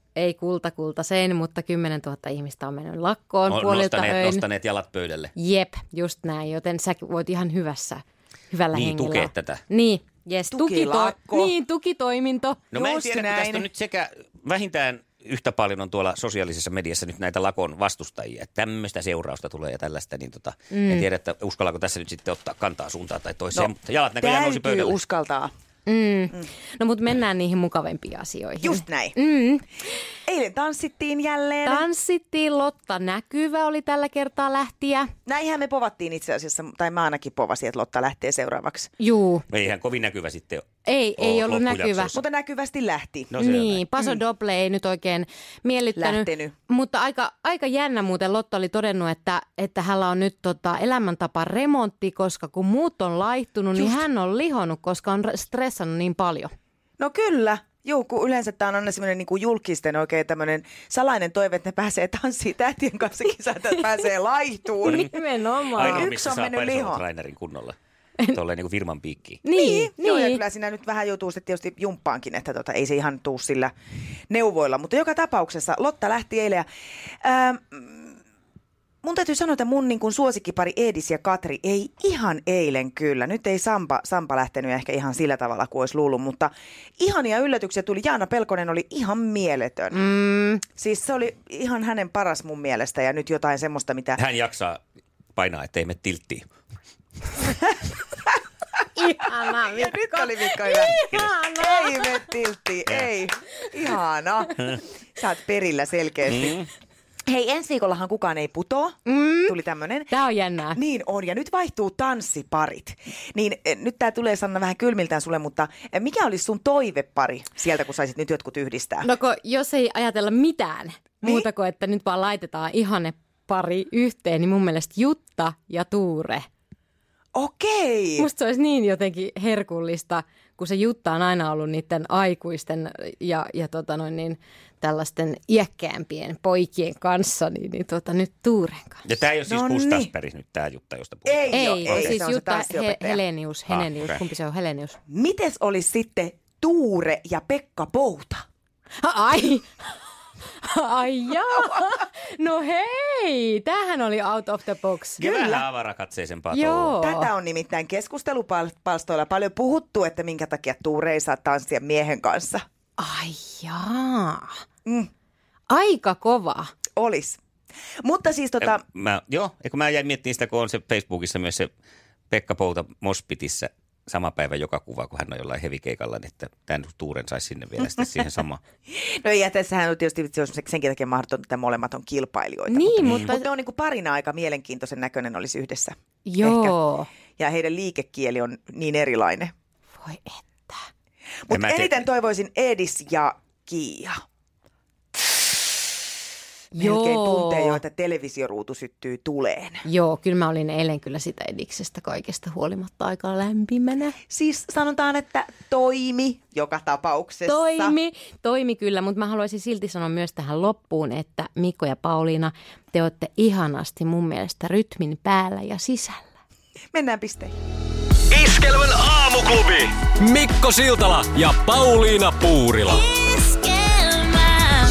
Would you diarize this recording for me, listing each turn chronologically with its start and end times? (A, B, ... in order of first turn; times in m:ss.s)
0:00.2-0:04.4 A
0:03.5-0:05.3 B
0:05.4-0:12.6 A
0:08.7-0:09.6 B
0:10.5-0:11.5 C
0:12.7-0:25.0 B
0:12.7-0:13.7 C
0:20.7-0:21.1 A
0:23.6-0:25.5 C
0:25.9-0:29.6 A
0:28.6-0:29.2 C
0:30.3-0:31.9 C
0:31.6-0:35.1 A
0:35.3-0:38.9 C
0:39.0-0:39.5 A
0:39.5-0:40.7 B
0:40.8-0:42.1 A
0:41.2-0:42.2 B
0:42.1-0:43.3 C
0:43.3-0:43.8 B
0:43.4-0:56.5 A
0:46.0-0:46.5 C
0:53.7-0:54.0 C
0:57.0-1:05.1 C
1:04.8-1:06.1 A
1:05.8-1:07.0 C
1:05.8-1:07.8 B
1:08.3-1:09.4 B
1:09.4-1:10.4 A
1:09.5-1:13.7 C
1:14.3-1:16.7 C
1:17.2-1:18.2 C
1:19.0-1:30.0 C
1:29.9-1:30.6 A
1:30.8-1:34.2 C
1:34.2-1:34.8 B
1:35.4-1:36.5 B
1:39.0-1:42.2 A
1:39.7-1:40.9 C
1:41.6-1:46.6 C
1:46.3-1:46.7 B
1:47.3-1:50.1 C
1:49.1-1:49.6 A
1:50.1-1:50.8 A
1:50.8-1:59.1 C
1:59.0-2:06.4 A
2:07.4-2:08.3 C
2:08.2-2:19.0 A
2:19.0-2:22.2 B
2:19.5-2:20.1 C
2:21.3-2:23.2 C
2:21.5-2:25.0 A
2:23.7-2:24.2 B
2:25.1-2:28.4 C
2:29.0-2:29.9 A
2:30.6-2:35.2 A
2:35.2-2:35.6 C
2:35.2-2:36.9 B
2:36.5-2:37.3 A
2:37.0-2:42.6 C
2:43.0-2:44.5 A
2:45.7-2:46.7 A
2:47.0-2:47.4 C
2:48.0-2:48.8 C
2:48.6-2:51.7 B
2:52.3-2:58.6 B
2:58.9-3:06.8 C
3:02.7-3:03.5 A
3:03.0-3:03.3 B
3:06.2-3:07.1 A
3:07.4-3:09.5 C
3:10.0-3:10.8 A
3:11.5-3:14.2 C
3:11.5-3:12.0 B
3:16.7-3:17.8 A
3:16.8-3:19.8 C
3:19.9-3:24.2 A
3:24.3-3:28.0 C
3:27.5-3:36.3 A
3:36.9-3:37.5 C
3:38.3-3:43.0 D